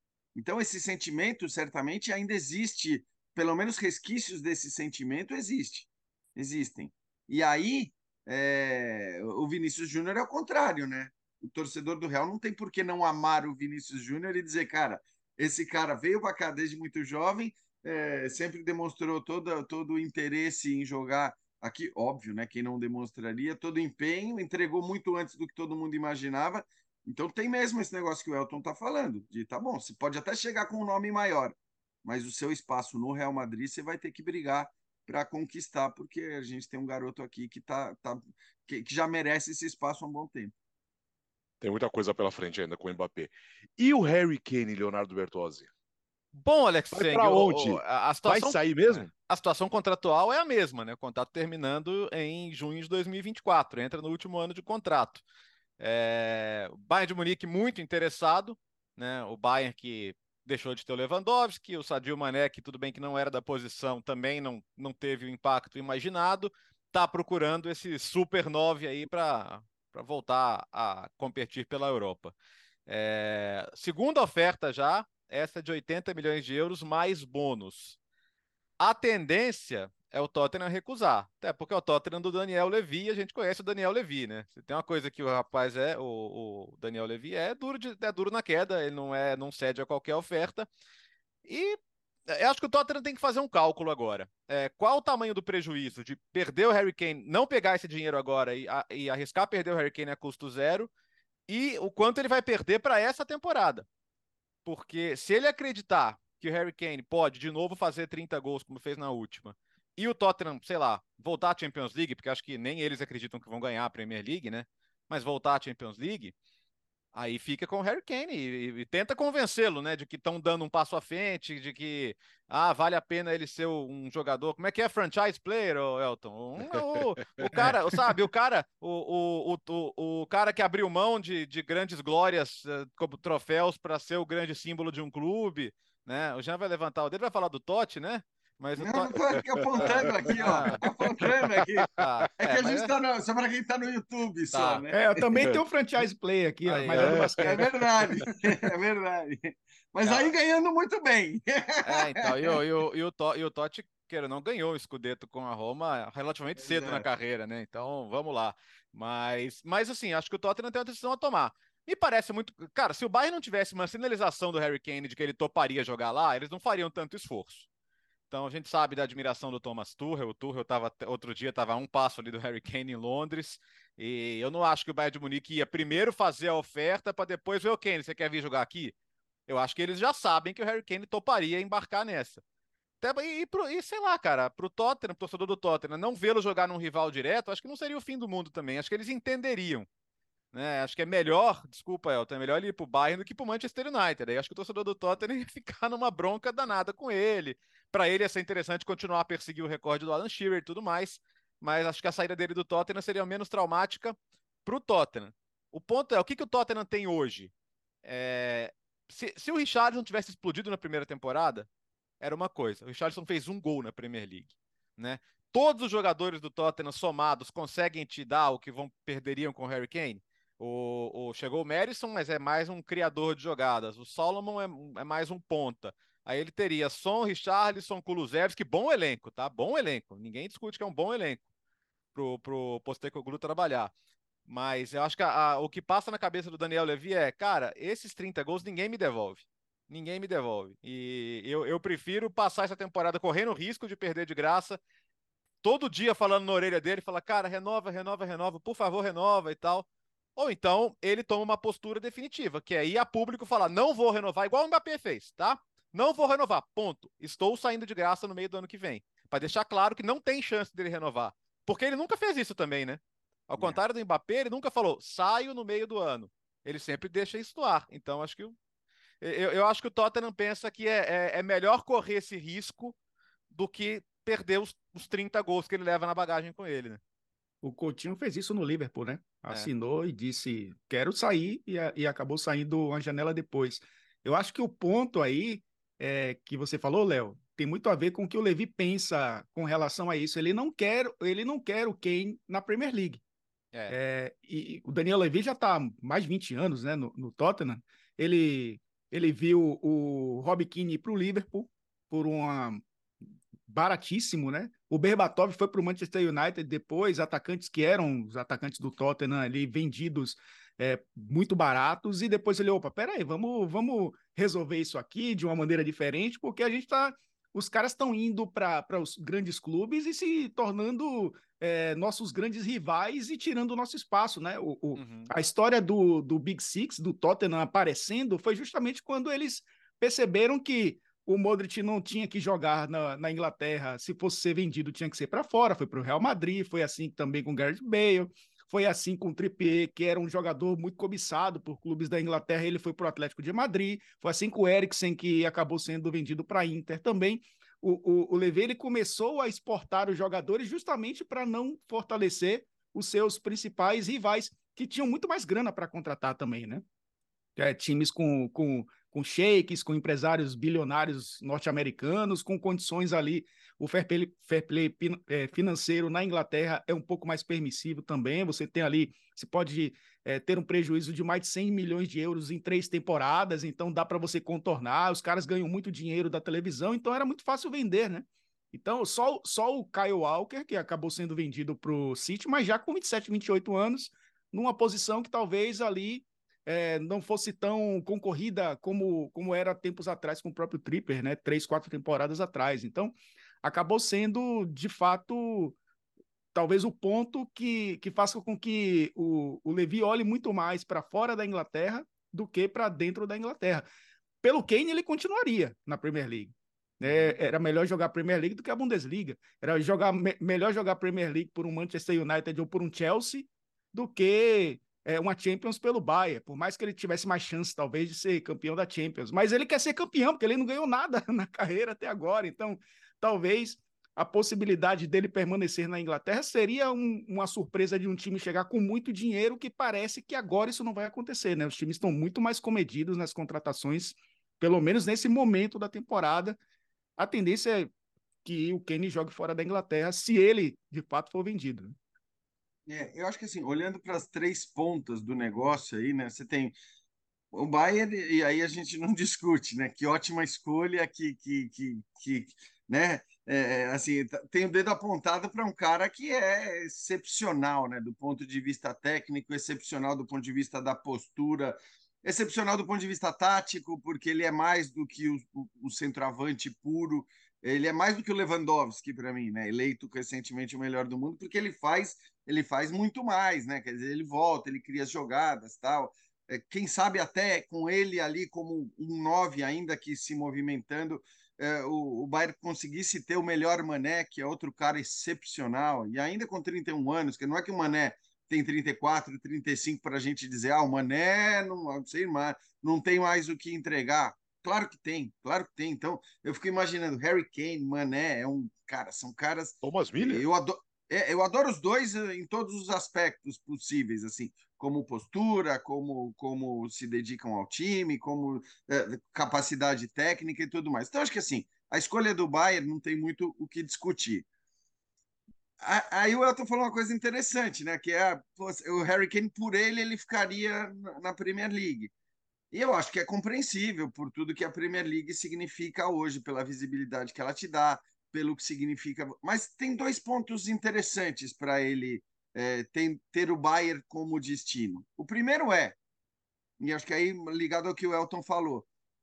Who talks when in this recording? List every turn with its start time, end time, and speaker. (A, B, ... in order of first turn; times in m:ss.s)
0:00.4-0:40.5 A
0:41.6-0:45.7 B
0:46.3-0:55.2 C
0:46.9-0:49.1 B
0:55.8-1:12.3 C
1:12.9-1:18.0 C
1:18.8-1:30.7 C
1:31.4-1:40.9 C
1:41.5-1:43.8 C
1:44.6-1:56.3 C
1:57.1-2:20.8 C
2:18.8-2:25.4 A
2:20.6-2:20.8 B
2:22.0-2:22.9 C
2:24.5-2:24.8 C
2:24.9-2:27.6 D
2:26.6-2:27.4 C
2:27.0-2:27.5 B
2:27.4-2:32.6 A
2:30.0-2:30.3 C
2:31.8-2:47.7 C
2:36.6-2:37.0 A
2:48.3-2:58.9 C
2:59.5-3:02.4 C
3:03.0-3:09.9 C
3:10.5-3:27.5 C
3:28.0-3:31.7 C
3:32.2-3:51.4 C
3:52.1-3:53.9 C
3:54.5-4:04.8 C
4:05.6-4:28.6 C
4:29.2-4:33.0 C
4:33.5-4:37.0 C
4:37.6-4:53.2 D
4:53.9-5:02.8 D
5:03.7-5:56.8 D
5:25.0-5:25.3 C
5:57.6-6:35.8 D
6:36.5-6:43.8 D
6:44.4-7:16.6 D
6:47.0-6:47.4 C
7:17.2-7:17.9 D
7:18.4-7:21.9 D
7:22.9-7:26.7 A
7:27.5-8:34.4 A
8:19.8-8:20.4 B
8:35.8-8:42.1 A
8:42.7-8:56.0 A
8:56.8-8:58.8 A